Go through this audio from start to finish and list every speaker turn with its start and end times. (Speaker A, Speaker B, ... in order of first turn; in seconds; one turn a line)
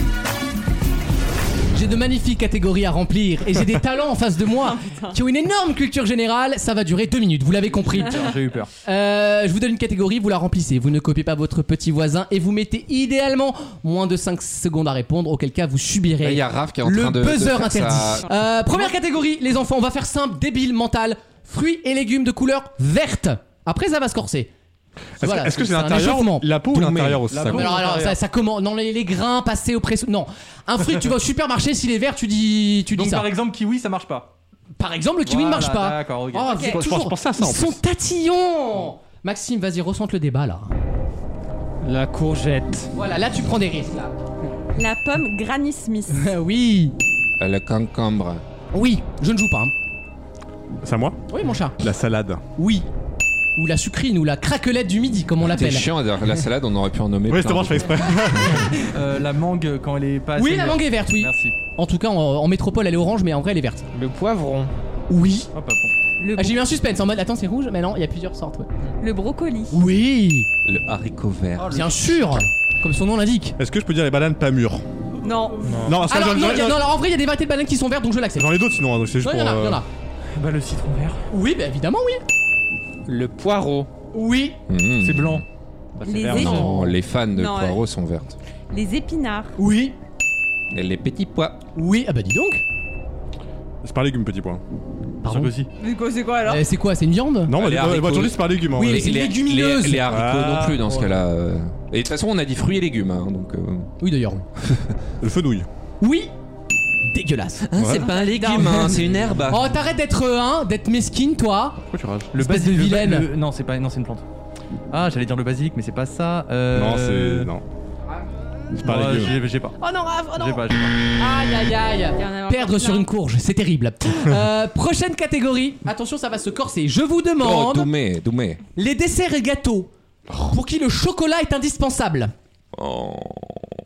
Speaker A: 1.7-8.3
Speaker B: 4.6-5.1
Speaker C: 7.7-8.7
Speaker A: 8.8-24.5
Speaker D: 16.2-18.3
Speaker E: 25.2-27.8
Speaker A: 25.2-26.5
Speaker C: 27.3-28.2
Speaker A: 27.5-33.3
Speaker C: 32.9-34.3
Speaker A: 34.8-40.7
Speaker C: 35.2-36.6
Speaker B: 36.5-36.8
Speaker E: 36.6-37.8
Speaker F: 41.8-42.9
Speaker A: 42.9-44.1
Speaker B: 44.8-46.2
Speaker A: 46.1-47.0
Speaker D: 47.4-48.4
Speaker A: 48.7-49.7
Speaker E: 50.8-51.2
Speaker A: 51.3-51.8
Speaker E: 51.8-52.4
Speaker A: 52.6-52.9
Speaker A: 53.6-55.9
Speaker D: 55.4-58.2
Speaker E: 57.3-58.8
Speaker C: 58.9-61.6
Speaker A: 60.4-63.9
Speaker F: 63.9-64.7
Speaker A: 65.1-65.5
Speaker C: 65.5-65.9
Speaker B: 66.2-66.6
Speaker A: 66.4-68.7
Speaker B: 69.0-69.8
Speaker A: 69.7-70.5
Speaker D: 70.7-71.8
Speaker C: 71.6-72.0
Speaker A: 71.6-73.6
Speaker E: 73.6-74.8
Speaker B: 75.2-75.8
Speaker F: 75.7-76.0
Speaker E: 75.8-76.9
Speaker A: 76.0-78.7
Speaker E: 78.3-79.8
Speaker A: 79.2-79.9
Speaker C: 80.3-81.3
Speaker A: 81.3-82.2
Speaker F: 83.1-83.9
Speaker A: 84.1-84.6
Speaker D: 84.7-85.5
Speaker C: 85.0-85.4
Speaker B: 86.0-86.8
Speaker F: 86.1-86.5
Speaker E: 86.2-86.7
Speaker D: 86.2-88.3
Speaker B: 87.3-87.8
Speaker B: 88.7-89.5
Speaker A: 89.6-90.0
Speaker D: 90.7-91.6
Speaker A: 91.8-92.6
Speaker E: 93.8-94.6
Speaker A: 95.2-95.5
Speaker C: 95.2-95.7
Speaker B: 95.8-96.7
Speaker A: 96.5-97.5
Speaker E: 97.5-99.2
Speaker D: 97.5-103.9
Speaker A: 98.8-100.1
Speaker E: 100.1-100.9
Speaker A: 104.0-104.4
Speaker D: 104.6-105.0
Speaker E: 105.2-105.7
Speaker A: 106.0-106.3
Speaker A: 107.0-107.7
Speaker D: 107.7-109.8
Speaker E: 107.8-108.1
Speaker B: 107.9-109.0
Speaker A: 108.4-109.0
Speaker A: 109.5-111.8
Speaker E: 111.9-112.3
Speaker C: 112.3-114.2
Speaker A: 112.3-113.3
Speaker C: 114.9-117.5
Speaker E: 116.7-117.6
Speaker C: 118.8-119.8
Speaker E: 118.8-119.4
Speaker A: 119.8-120.6
Speaker C: 120.3-121.0
Speaker A: 121.2-127.9
Speaker B: 122.2-123.1
Speaker D: 127.4-128.6
Speaker A: 128.8-129.9
Speaker A: 130.5-132.3
Speaker D: 132.7-133.7